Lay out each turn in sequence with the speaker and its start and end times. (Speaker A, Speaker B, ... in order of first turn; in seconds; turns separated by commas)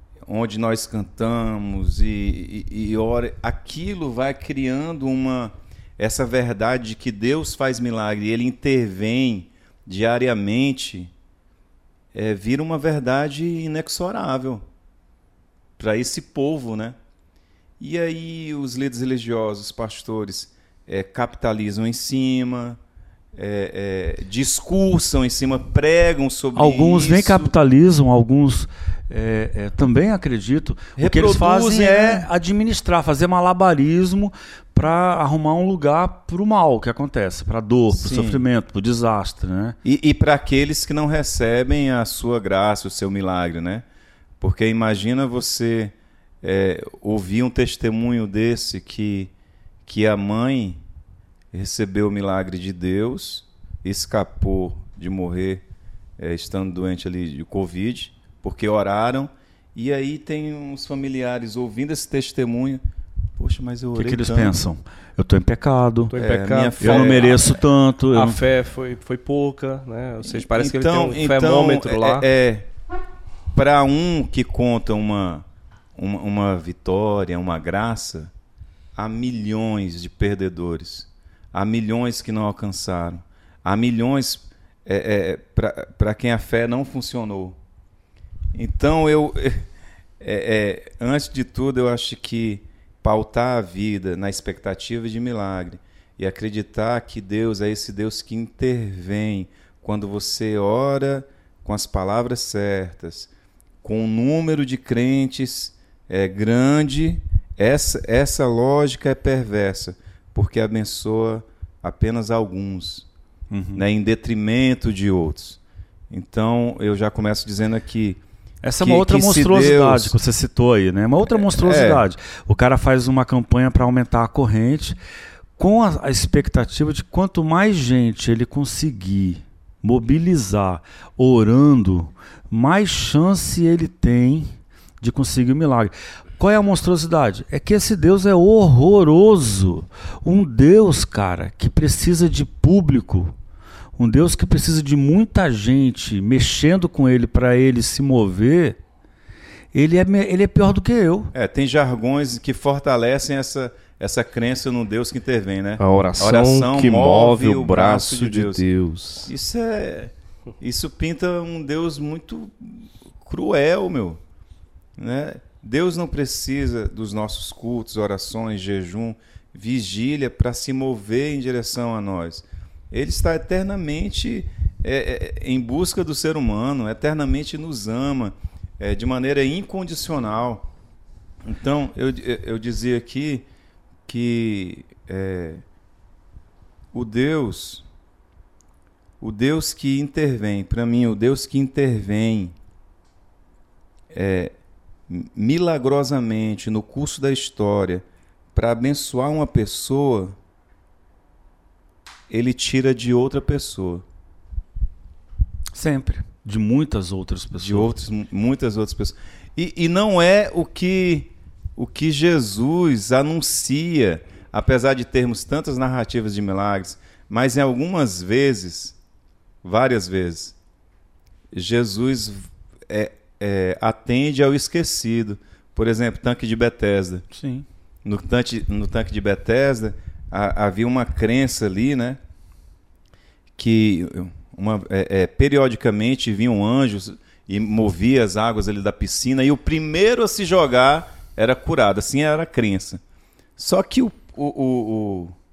Speaker A: 0.3-11.1, Speaker A: 12.1-14.6, Speaker A: 15.8-16.9, Speaker A: 17.8-22.8, Speaker A: 23.3-27.5, Speaker B: 26.5-39.8, Speaker A: 31.0-32.3, Speaker A: 37.9-38.4, Speaker A: 39.8-43.8, Speaker A: 44.4-49.3, Speaker A: 49.9-50.8, Speaker A: 51.5-55.6, Speaker A: 56.2-62.8, Speaker A: 63.4-64.6, Speaker B: 64.0-66.1, Speaker C: 66.1-67.5, Speaker A: 66.1-67.4, Speaker B: 66.8-68.4, Speaker C: 68.1-72.2, Speaker A: 70.2-72.7, Speaker A: 73.5-75.4, Speaker A: 76.0-78.3, Speaker A: 79.0-87.6, Speaker A: 88.5-89.7, Speaker A: 90.2-103.3, Speaker A: 103.8-113.1, Speaker B: 113.5-113.8, Speaker A: 113.8-118.2, Speaker B: 118.6-125.0, Speaker A: 118.8-120.1, Speaker A: 121.3-122.0, Speaker B: 125.6-143.3, Speaker B: 144.0-148.8, Speaker B: 149.7-151.3, Speaker A: 151.3-158.6, Speaker C: 155.8-159.3, Speaker A: 159.2-164.2, Speaker A: 165.0-180.7, Speaker A: 181.4-183.5, Speaker A: 184.1-185.6, Speaker A: 186.9-187.8, Speaker A: 189.2-192.6, Speaker A: 194.1-194.5, Speaker A: 195.1-200.4, Speaker A: 202.3-204.0, Speaker B: 205.7-207.9, Speaker A: 207.6-218.9, Speaker A: 219.6-220.5, Speaker A: 221.5-227.2, Speaker B: 227.3-227.7, Speaker A: 228.0-232.2, Speaker A: 233.6-243.0, Speaker A: 243.6-245.3